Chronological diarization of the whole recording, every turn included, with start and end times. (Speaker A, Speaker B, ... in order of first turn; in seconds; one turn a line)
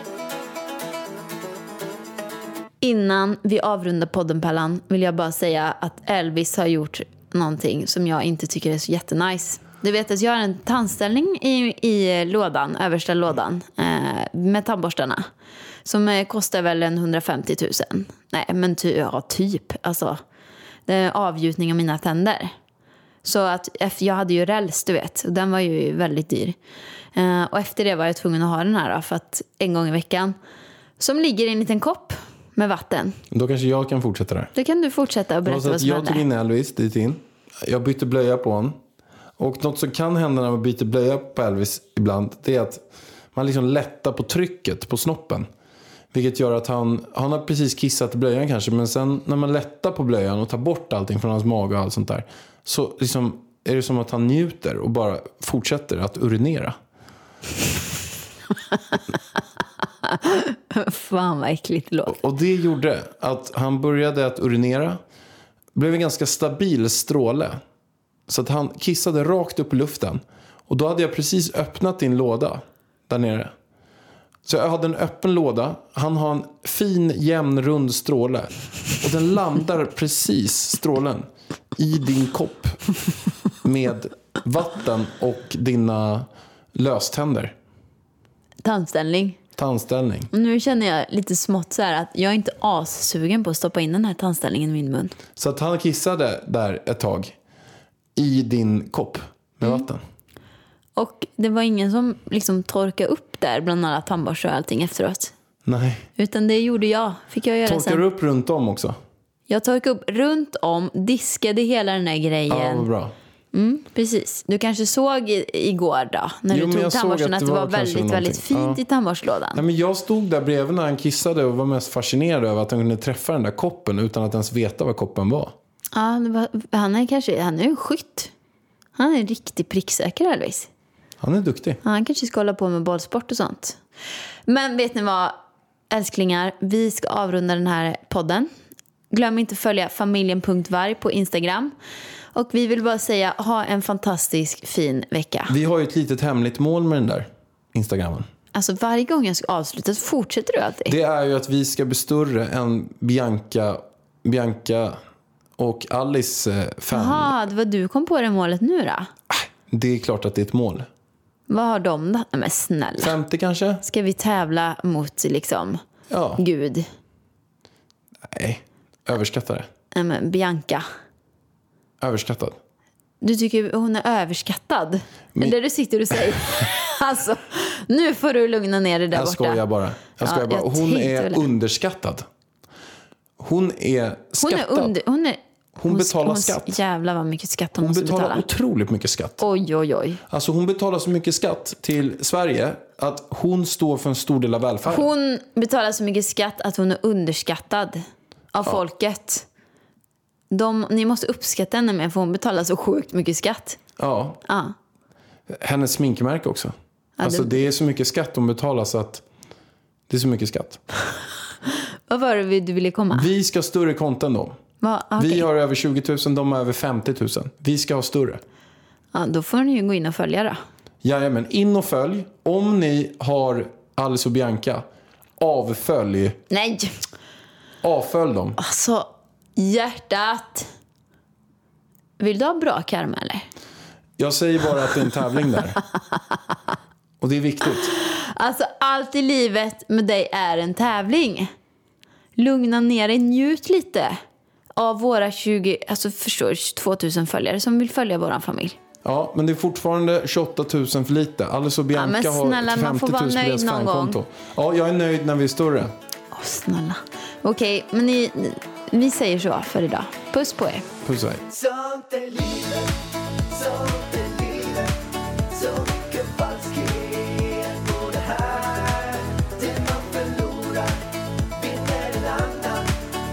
Speaker A: 2.8-15.3
Speaker A: 15.8-20.2
Speaker A: 20.9-22.5
Speaker A: 23.2-26.6
Speaker A: 27.1-30.4
Speaker A: 31.0-33.2
Speaker B: 33.3-34.5
Speaker A: 34.5-36.2
Speaker B: 35.5-38.8
Speaker B: 39.4-42.8
Speaker B: 43.3-45.5
Speaker B: 46.1-56.8
Speaker A: 60.0-62.2
Speaker B: 62.1-65.0
Speaker B: 65.8-67.6
Speaker B: 68.3-73.5
Speaker B: 74.5-82.8
Speaker B: 83.6-87.5
Speaker A: 88.6-89.4
Speaker B: 89.6-90.3
Speaker A: 90.3-95.2
Speaker B: 95.4-97.3
Speaker B: 98.2-100.0
Speaker A: 101.0-105.3
Speaker B: 105.7-106.1
Speaker A: 106.2-108.0
Speaker B: 107.7-109.0
Speaker A: 109.5-112.9
Speaker B: 112.5-113.1
Speaker A: 113.5-119.6
Speaker B: 116.5-118.8
Speaker B: 119.5-125.6
Speaker A: 125.9-128.3
Speaker A: 129.0-130.7
Speaker B: 131.2-131.8
Speaker A: 131.8-133.8
Speaker A: 134.5-135.3
Speaker A: 135.9-138.5
Speaker A: 139.1-141.7
Speaker A: 142.3-145.6
Speaker B: 145.5-148.3
Speaker A: 148.5-150.9
Speaker B: 150.9-155.0
Speaker B: 155.6-157.3
Speaker A: 156.9-159.1
Speaker B: 159.3-160.9
Speaker A: 161.5-163.1
Speaker B: 163.0-163.8
Speaker A: 163.8-165.8
Speaker B: 166.1-166.4
Speaker A: 166.4-166.9
Speaker B: 168.2-169.7
Speaker A: 169.9-170.9
Speaker B: 172.0-172.6
Speaker A: 173.2-179.6
Speaker B: 179.1-182.3
Speaker A: 180.2-181.5
Speaker B: 183.4-185.0
Speaker A: 184.4-188.4
Speaker B: 185.8-186.8
Speaker B: 187.8-189.4
Speaker A: 189.4-190.2
Speaker B: 190.3-195.1
Speaker A: 194.8-198.0
Speaker A: 198.5-199.5
Speaker A: 200.5-203.8
Speaker B: 204.0-204.4
Speaker A: 204.5-204.8
Speaker B: 205.5-209.2
Speaker A: 207.2-207.6
Speaker B: 210.1-210.8
Speaker A: 212.1-213.3
Speaker B: 213.1-214.6
Speaker A: 214.8-215.5
Speaker B: 215.2-218.4
Speaker A: 219.1-220.6
Speaker B: 221.0-224.9
Speaker B: 225.4-226.4
Speaker A: 226.5-227.0
Speaker B: 227.8-228.6
Speaker A: 228.6-230.7
Speaker A: 232.2-233.5
Speaker B: 234.2-235.8
Speaker B: 237.2-237.9
Speaker A: 237.9-241.5
Speaker A: 242.4-244.2
Speaker A: 244.8-248.8
Speaker B: 249.0-255.9
Speaker A: 251.9-254.2
Speaker A: 256.3-260.9
Speaker B: 261.0-261.4
Speaker C: 261.5-272.9